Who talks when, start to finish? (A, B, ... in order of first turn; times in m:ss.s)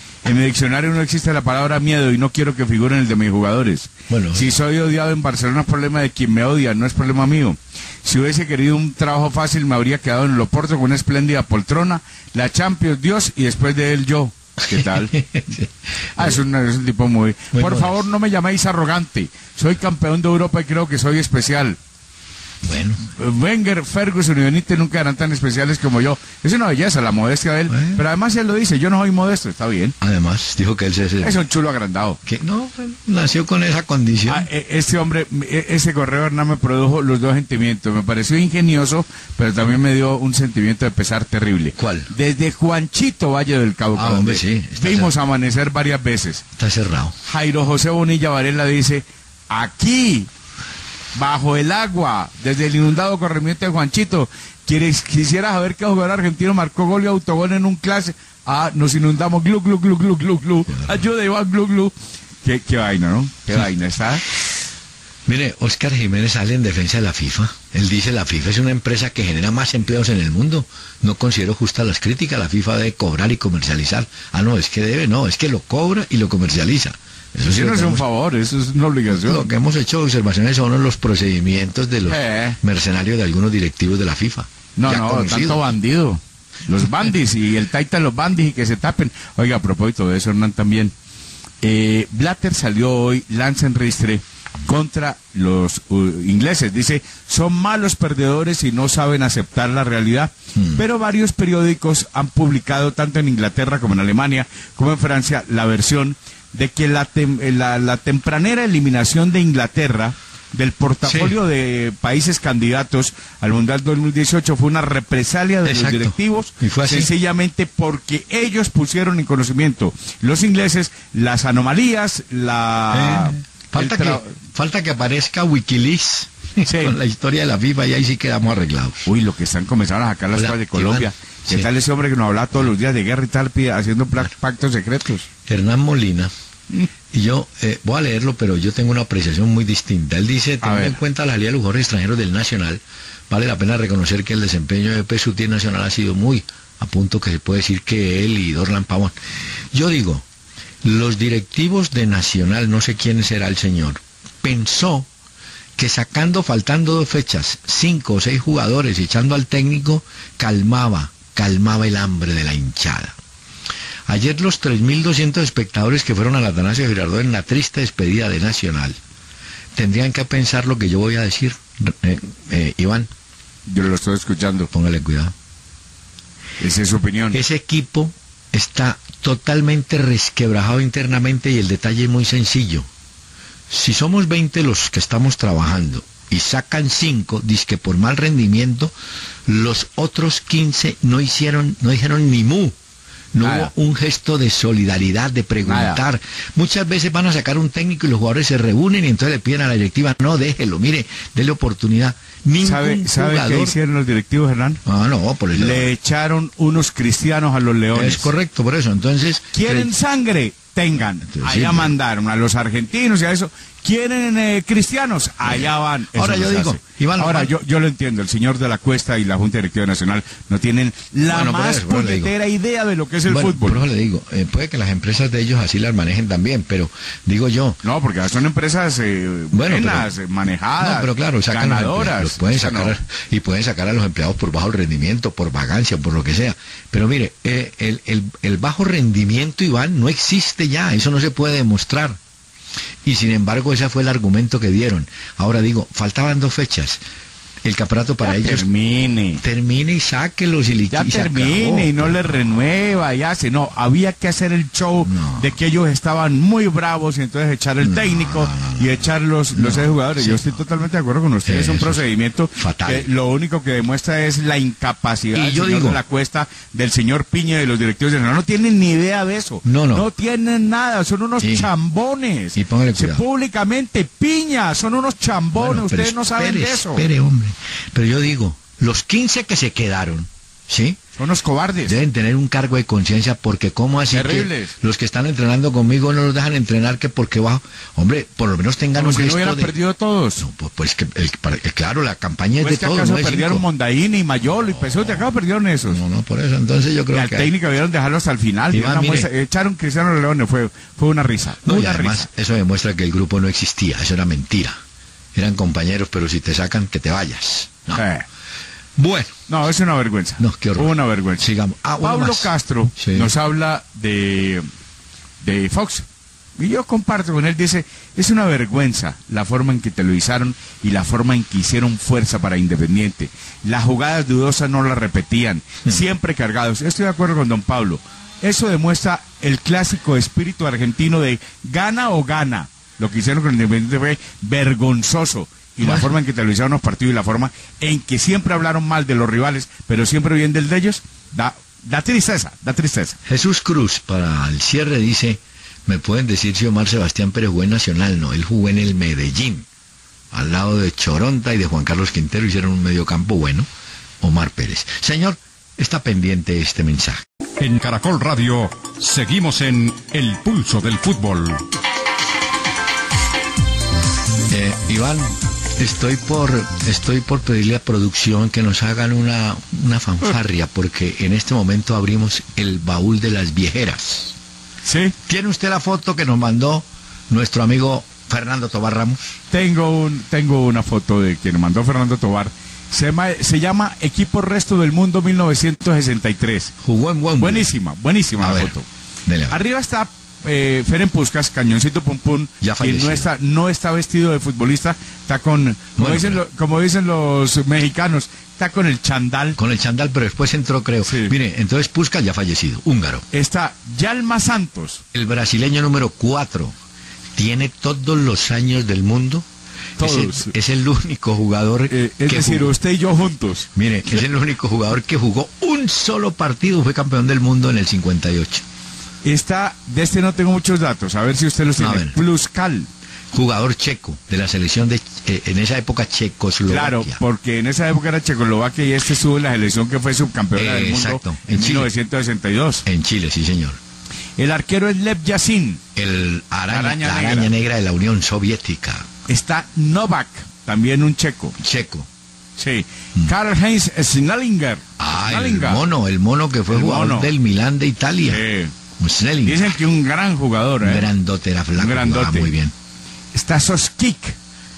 0:00.2-0:15.1 A
0:04.1-0:04.5 B
0:14.7-0:16.4 B
0:16.2-0:21.8 A
0:17.5-0:18.0 B
0:22.6-0:23.0 B
0:23.2-0:29.9 A
0:27.7-0:28.0 B
0:30.0-0:31.4 B
0:31.2-0:32.2 A
0:32.2-0:34.4 B
0:34.3-0:46.4 A
0:41.8-0:42.1 B
0:43.9-0:45.1 B
0:46.6-0:47.1 B
0:47.2-0:50.3 A
0:51.1-1:01.9 A
1:00.7-1:01.1 B
1:02.4-1:04.4 A
1:05.2-1:18.0 B
1:17.4-1:19.4 A
1:19.1-1:25.7 B
1:22.0-1:22.6 A
1:24.8-1:30.9 A
1:31.6-2:04.4 A
1:40.5-1:40.8 B
1:51.0-1:51.4 B
1:55.6-1:57.1 B
2:02.9-2:09.1 B
2:06.6-2:07.0 A
2:09.0-2:15.2 A
2:10.3-2:11.7 B
2:15.5-2:16.3 B
2:17.1-2:29.2 B
2:20.6-2:21.0 A
2:29.7-2:30.2 B
2:30.8-2:35.1 B
2:35.8-2:43.2 B
2:44.1-2:49.0 B
2:49.7-2:53.1 B
2:53.7-2:54.7 A
2:54.7-2:55.3 B
2:56.6-2:57.4 A
2:57.3-3:02.9 B
3:03.7-3:08.9 B
3:09.4-3:12.8 B
3:13.3-3:23.7 B
3:13.4-3:13.7 A
3:15.6-3:16.0 A
3:22.6-3:24.8 A
3:24.8-3:25.9 B
3:25.5-3:28.3 A
3:27.9-3:29.9 B
3:29.5-3:43.9 A
3:31.2-3:31.9 B
3:35.4-3:37.5 B
3:41.3-3:42.3 B
3:43.3-3:47.8 B
3:47.8-3:53.0 A
3:49.5-3:50.1 B
3:50.8-4:02.2 B
4:03.0-4:07.0 B
4:07.6-4:08.7 B
4:08.2-4:09.4 A
4:09.4-4:12.3 B
4:10.9-4:37.1 A
4:15.0-4:15.5 B
4:17.8-4:20.6 B
4:21.4-4:22.0 B
4:22.5-4:23.1 B
4:25.3-4:26.0 B
4:29.6-4:30.1 B
4:31.4-4:31.7 B
4:32.6-4:33.2 B
4:35.5-4:41.0 B
4:41.2-4:42.0 A
4:41.8-4:49.7 B
4:44.1-4:44.7 A
4:48.9-4:50.4 A
4:50.4-4:53.6 B
4:52.6-4:56.0 A
4:54.6-4:55.3 B
4:55.8-4:57.5 B
4:57.1-5:02.3 A
4:58.7-4:59.3 B
5:01.6-5:04.8 B
5:05.3-5:08.0 B
5:07.9-5:08.2 A
5:09.0-5:09.4 B
5:09.5-5:11.5 A
5:10.4-5:13.3 B
5:12.0-5:14.6 A
5:15.4-5:16.0 A
5:16.6-5:43.2 A
5:43.2-5:49.6 B
5:50.3-5:53.7 B
5:54.2-5:57.2 B
5:57.6-6:01.6 C
6:04.5-6:14.4 B
6:14.8-6:15.1 A
6:15.3-6:19.4 B
6:19.5-6:26.7 A
6:26.8-6:27.7 B
6:27.4-6:28.8 A
6:28.4-6:28.7 B
6:29.2-6:29.6 B
6:29.5-6:39.6 A
6:32.6-6:33.3 B
6:36.0-6:36.4 B
6:39.6-6:43.2 B
6:41.0-6:41.3 A
6:43.3-6:45.0 A
6:45.1-6:46.8 B
6:47.4-6:49.4 B
6:50.0-6:52.7 B
6:50.0-6:50.5 A
6:51.9-6:53.7 A
6:53.7-6:58.6 B
6:59.2-7:02.9 A
7:01.8-7:02.2 B
7:03.3-7:07.2 B
7:06.7-7:12.8 A
7:10.6-7:11.9 B
7:12.8-7:13.8 B
7:14.4-7:15.8 A
7:16.0-7:19.1 B
7:16.7-7:17.5 A
7:19.3-7:21.5 A
7:21.6-7:22.1 B
7:22.6-7:25.8 A
7:25.0-7:28.4 B
7:26.7-7:27.3 A
7:28.3-7:28.7 A
7:29.0-7:29.7 B
7:29.4-7:31.1 A
7:30.8-7:32.7 B
7:31.8-7:32.5 A
7:33.3-7:34.4 A